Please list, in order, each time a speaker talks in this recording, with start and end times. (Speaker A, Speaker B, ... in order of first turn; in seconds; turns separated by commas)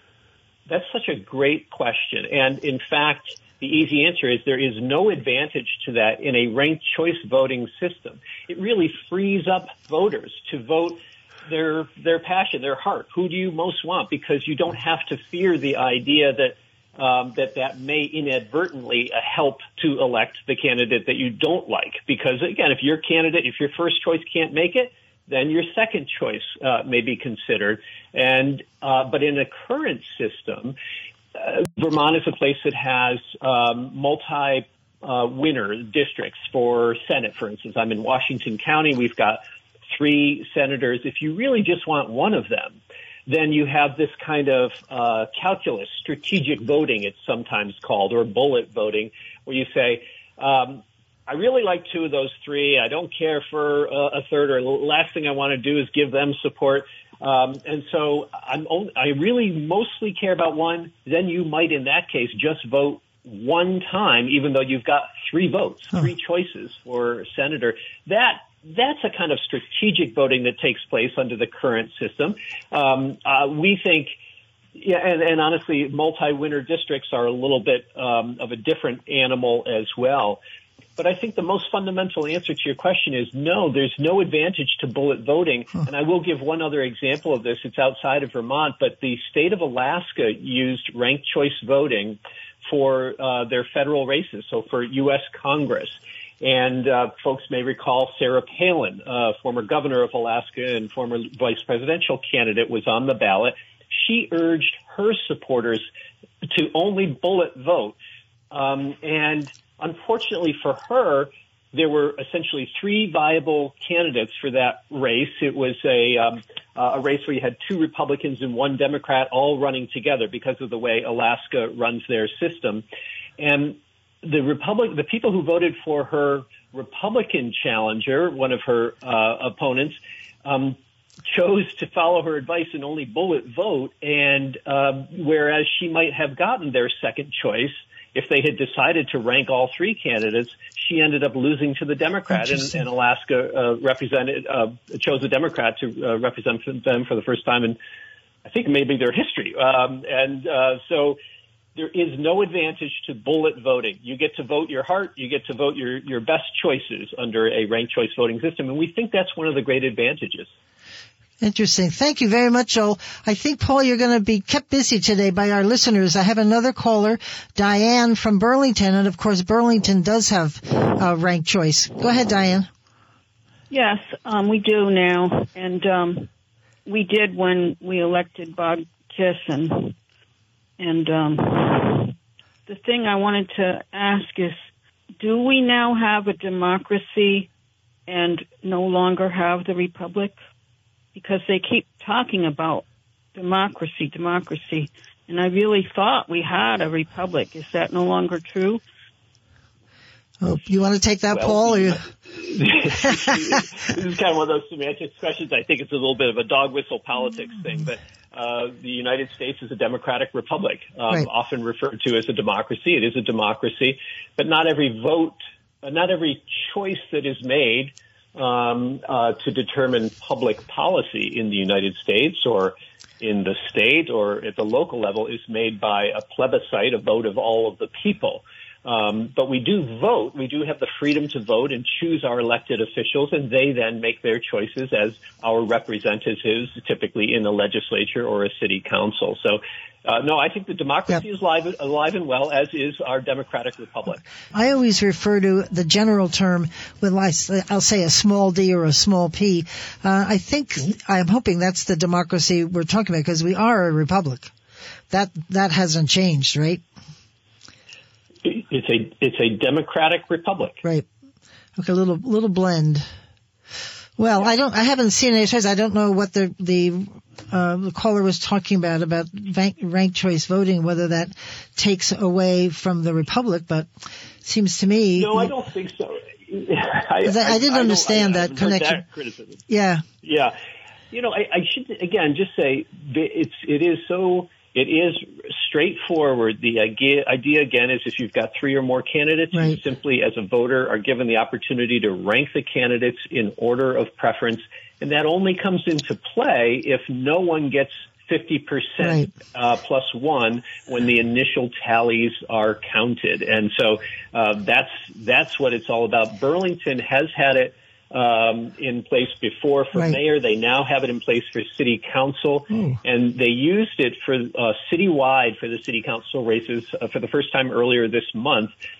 Speaker A: 0.7-30.8, Speaker A: 31.4-74.2, Speaker A: 74.7-80.4, Speaker A: 81.0-105.9, Speaker A: 106.4-108.0, Speaker A: 108.5-122.8, Speaker A: 123.4-147.8, Speaker B: 142.4-142.7, Speaker A: 148.4-151.2, Speaker A: 151.7-160.5, Speaker B: 161.4-172.7, Speaker C: 173.7-176.3, Speaker C: 176.8-179.9, Speaker C: 180.8-182.1, Speaker C: 182.7-184.6, Speaker C: 185.2-187.5, Speaker C: 188.1-190.4, Speaker C: 191.1-192.8, Speaker C: 193.3-198.8, Speaker B: 200.4-202.1, Speaker A: 201.3-244.2, Speaker B: 244.5-254.5, Speaker B: 255.1-256.8, Speaker A: 258.4-260.8, Speaker B: 261.8-263.1, Speaker B: 264.2-273.9, Speaker B: 274.4-275.5, Speaker A: 275.1-279.6, Speaker B: 277.2-279.0, Speaker B: 279.7-280.0, Speaker A: 280.2-280.6, Speaker A: 281.1-318.7, Speaker B: 289.5-289.8, Speaker B: 299.0-299.4, Speaker B: 312.7-313.0